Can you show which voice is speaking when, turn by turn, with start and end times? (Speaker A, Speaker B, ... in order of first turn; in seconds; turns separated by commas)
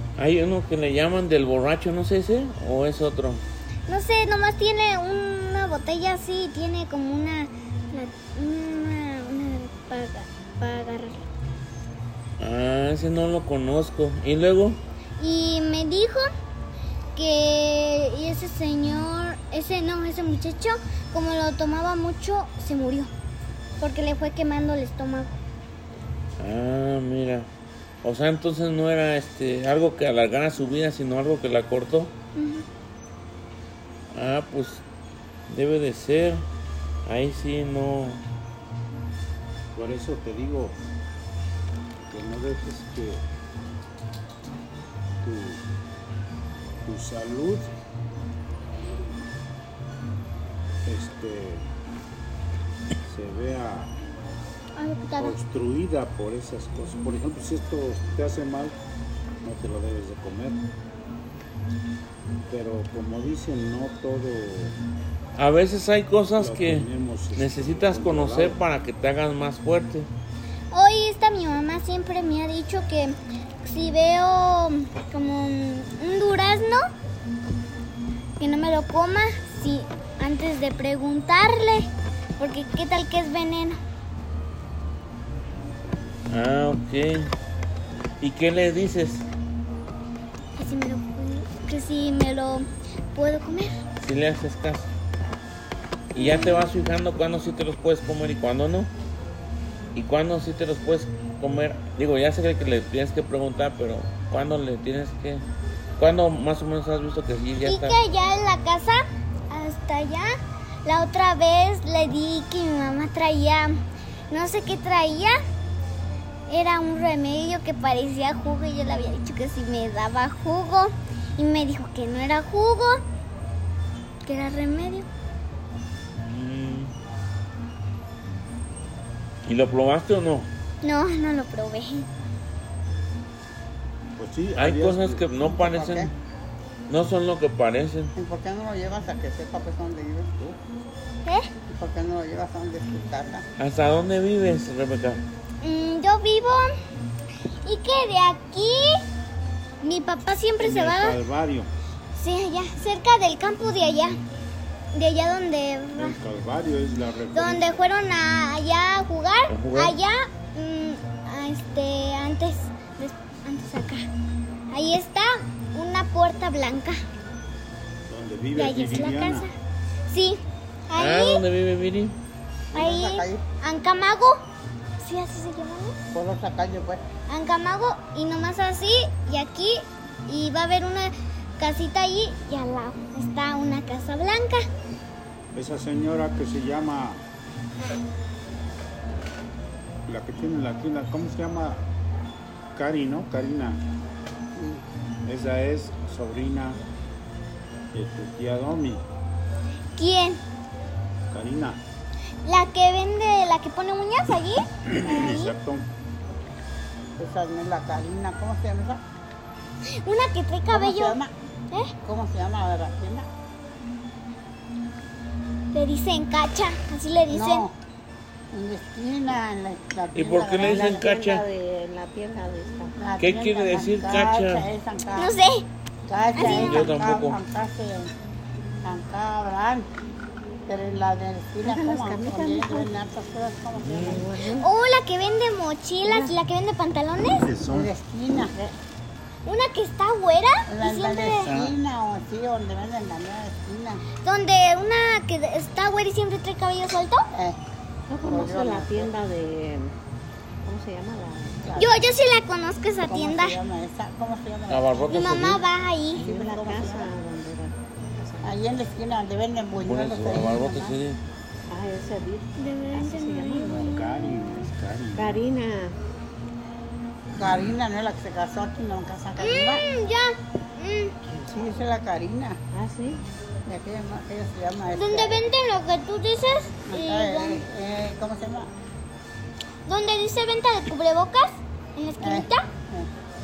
Speaker A: 0.2-3.4, Speaker B: 3.9-11.3, Speaker A: 12.4-14.8, Speaker B: 15.2-16.2, Speaker B: 17.2-23.1, Speaker B: 23.8-25.4, Speaker A: 26.4-27.5, Speaker A: 28.0-32.1, Speaker B: 32.4-32.7, Speaker A: 34.1-34.8, Speaker A: 35.5-36.5, Speaker A: 37.1-38.2, Speaker C: 39.8-40.8, Speaker C: 42.1-43.2, Speaker C: 45.2-45.6, Speaker C: 46.8-47.7, Speaker C: 50.9-51.7, Speaker C: 53.0-53.9, Speaker B: 54.8-55.4, Speaker C: 55.2-58.8, Speaker C: 59.4-60.6, Speaker C: 62.4-64.8, Speaker A: 65.4-70.1, Speaker C: 66.4-68.6, Speaker B: 70.7-76.9, Speaker B: 78.4-83.8, Speaker A: 86.3-87.3, Speaker A: 88.2-89.3, Speaker B: 90.6-93.8, Speaker A: 94.0-94.9, Speaker A: 96.1-98.9, Speaker A: 100.0-105.5, Speaker A: 106.0-108.0, Speaker B: 107.7-110.3, Speaker B: 110.8-115.4, Speaker B: 116.5-123.0, Speaker B: 124.2-125.1, Speaker A: 126.3-126.9, Speaker A: 129.5-130.5, Speaker B: 130.8-132.1, Speaker C: 134.2-135.3, Speaker A: 134.6-136.1, Speaker D: 135.4-136.1, Speaker A: 136.9-138.1, Speaker D: 138.2-140.3, Speaker D: 141.7-143.5, Speaker A: 143.6-145.2, Speaker B: 145.6-146.7, Speaker B: 147.6-149.1, Speaker B: 149.8-151.2, Speaker C: 150.6-151.7, Speaker B: 152.2-154.2, Speaker B: 154.9-156.2, Speaker C: 156.0-157.8, Speaker B: 157.3-164.1, Speaker A: 159.5-160.0, Speaker B: 164.7-167.0, Speaker C: 168.1-169.5, Speaker B: 168.6-169.5, Speaker B: 170.1-171.4, Speaker A: 170.9-172.2, Speaker D: 172.7-173.4, Speaker B: 172.7-174.4, Speaker B: 175.0-176.0, Speaker D: 176.1-177.0, Speaker B: 177.3-184.7, Speaker C: 185.5-187.2, Speaker C: 190.1-191.8, Speaker C: 192.8-193.8, Speaker D: 194.6-194.8, Speaker C: 195.2-196.8, Speaker C: 197.9-199.1, Speaker B: 200.0-200.4, Speaker C: 201.3-201.8, Speaker B: 202.4-205.5, Speaker C: 204.8-205.9, Speaker D: 207.2-209.0, Speaker B: 209.9-211.2, Speaker D: 210.7-211.3, Speaker D: 212.0-213.3, Speaker B: 215.7-217.7, Speaker D: 217.3-217.7, Speaker D: 218.5-221.1, Speaker A: 220.1-221.4, Speaker E: 220.6-222.9, Speaker D: 223.0-225.3, Speaker A: 223.2-224.7, Speaker B: 225.2-225.7, Speaker D: 226.1-228.1, Speaker B: 226.3-226.9, Speaker A: 226.4-227.4, Speaker D: 228.8-229.9, Speaker D: 230.7-234.3, Speaker E: 231.6-232.9, Speaker A: 233.8-234.2, Speaker E: 234.0-234.7, Speaker B: 234.6-237.5, Speaker E: 236.0-236.3, Speaker C: 237.4-237.9, Speaker D: 237.7-238.5, Speaker B: 239.5-241.7, Speaker D: 240.7-244.0, Speaker B: 244.2-247.3, Speaker E: 248.1-249.9, Speaker D: 248.2-249.1, Speaker E: 250.7-251.7, Speaker D: 251.6-252.1, Speaker B: 251.8-253.6, Speaker D: 253.1-255.5, Speaker A: 254.7-255.6, Speaker B: 255.1-256.2, Speaker E: 256.1-258.8, Speaker D: 256.2-257.1, Speaker D: 258.4-261.0, Speaker A: 259.8-261.2, Speaker E: 261.7-263.9, Speaker B: 262.6-264.1, Speaker C: 263.7-265.4, Speaker E: 265.1-265.9, Speaker D: 267.4-269.8, Speaker B: 269.4-271.1, Speaker D: 271.5-272.6, Speaker E: 272.7-273.2, Speaker D: 273.7-275.4, Speaker B: 275.0-277.6, Speaker D: 276.9-278.7, Speaker B: 279.9-282.6, Speaker D: 282.2-283.1